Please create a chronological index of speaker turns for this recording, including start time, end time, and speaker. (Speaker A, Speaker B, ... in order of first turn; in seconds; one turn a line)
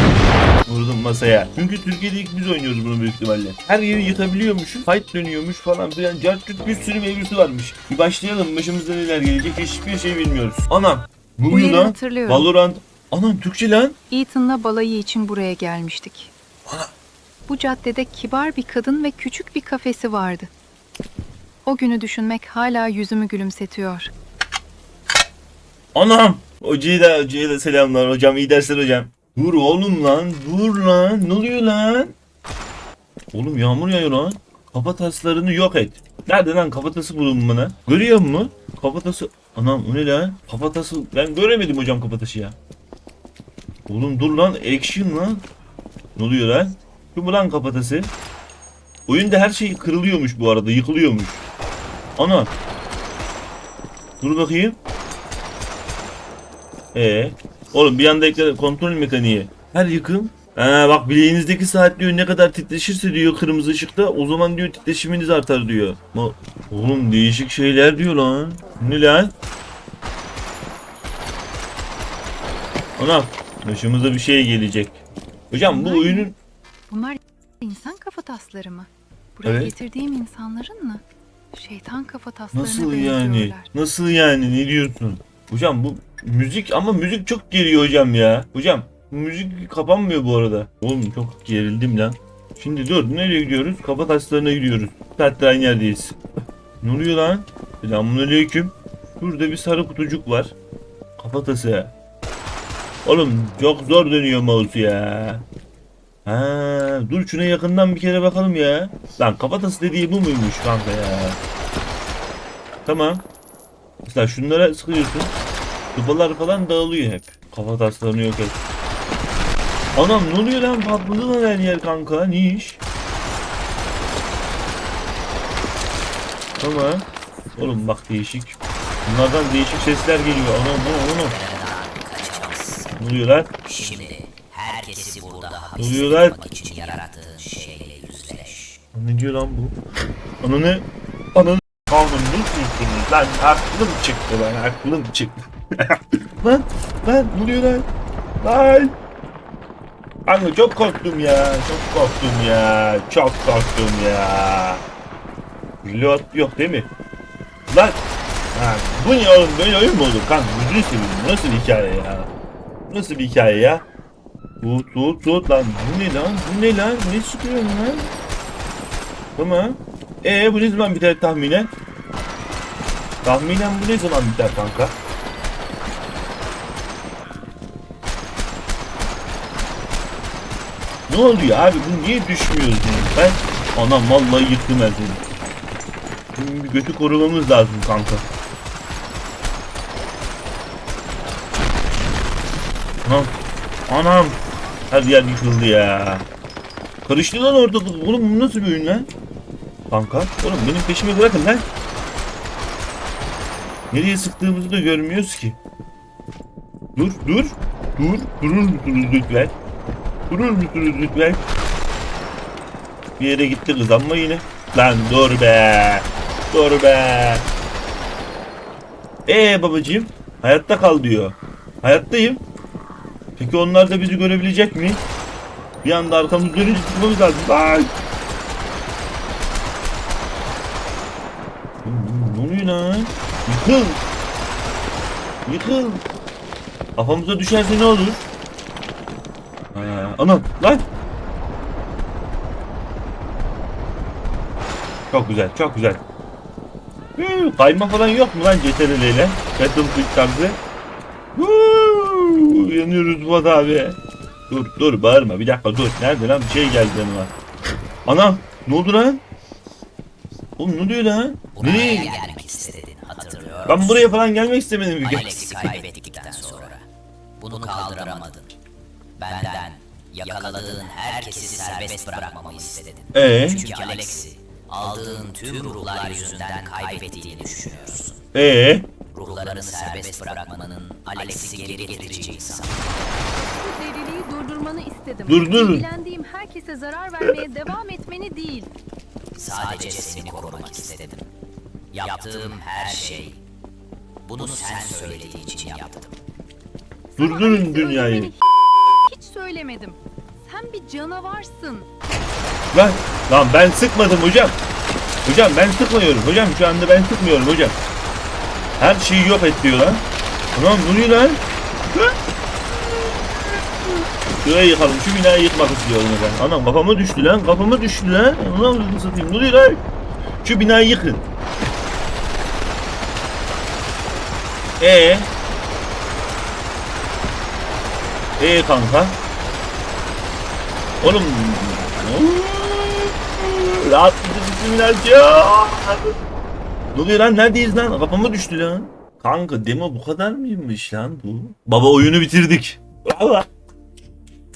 Speaker A: 0.7-13.9
Speaker B: 11.5-12.5
Speaker B: 14.1-16.3
Speaker B: 17.5-20.5
Speaker B: 21.6-24.1
Speaker A: 25.9-32.1
Speaker A: 33.3-42.6
Speaker A: 43.9-45.4
Speaker A: 46.1-48.1
Speaker A: 49.1-51.4
Speaker A: 52.2-52.5
Speaker A: 54.2-54.8
Speaker A: 56.9-69.3
Speaker A: 73.0-76.3
Speaker B: 75.6-76.3
Speaker B: 76.9-83.7
Speaker A: 79.4-79.7
Speaker A: 82.5-96.2
Speaker A: 96.8-100.5
Speaker A: 101.2-101.9
Speaker A: 103.0-105.5
Speaker A: 106.2-111.4
Speaker A: 112.8-113.2
Speaker A: 114.0-115.3
Speaker A: 115.9-118.6
Speaker A: 119.9-122.8
Speaker A: 126.6-127.0
Speaker A: 127.6-131.4
Speaker C: 131.2-133.0
Speaker A: 133.0-133.5
Speaker C: 133.6-138.8
Speaker A: 135.8-136.4
Speaker A: 138.9-139.8
Speaker A: 140.4-147.9
Speaker A: 148.4-148.9
Speaker A: 150.2-154.8
Speaker A: 155.8-156.9
Speaker A: 157.7-158.0
Speaker A: 158.5-162.3
Speaker A: 162.9-163.8
Speaker A: 164.6-168.1
Speaker A: 169.3-171.7
Speaker A: 173.2-174.9
Speaker A: 181.1-185.2
Speaker A: 186.3-188.2
Speaker A: 193.0-193.3
Speaker A: 193.9-196.3
Speaker A: 197.1-199.1
Speaker A: 199.9-201.6
Speaker A: 203.9-205.6
Speaker A: 206.9-209.5
Speaker A: 210.3-211.4
Speaker A: 213.2-217.5
Speaker A: 219.2-222.4
Speaker A: 223.4-225.0
Speaker A: 225.8-227.9
Speaker A: 231.8-234.0
Speaker A: 235.4-236.0
Speaker A: 236.9-238.2
Speaker A: 239.7-240.8
Speaker A: 245.1-246.0
Speaker A: 247.2-250.6
Speaker A: 251.3-254.0
Speaker A: 254.5-257.3
Speaker A: 258.1-259.2
Speaker A: 260.6-262.2
Speaker C: 261.5-264.2
Speaker A: 263.7-265.7
Speaker C: 265.0-266.8
Speaker C: 267.4-268.5
Speaker C: 269.2-278.2
Speaker A: 273.1-273.6
Speaker A: 278.3-278.9
Speaker C: 279.1-282.9
Speaker B: 283.6-288.7
Speaker A: 285.3-285.9
Speaker C: 289.3-291.3
Speaker C: 291.9-293.4
Speaker C: 294.2-296.2
Speaker B: 297.1-298.4
Speaker A: 297.2-298.3
Speaker B: 298.9-301.9
Speaker A: 302.7-304.6
Speaker A: 305.2-307.8
Speaker A: 308.8-310.0
Speaker A: 310.6-311.4
Speaker A: 312.7-313.9
Speaker A: 314.4-319.8
Speaker A: 320.4-321.2
Speaker A: 324.8-325.3
Speaker A: 328.4-329.2
Speaker A: 331.0-336.1
Speaker A: 336.9-343.5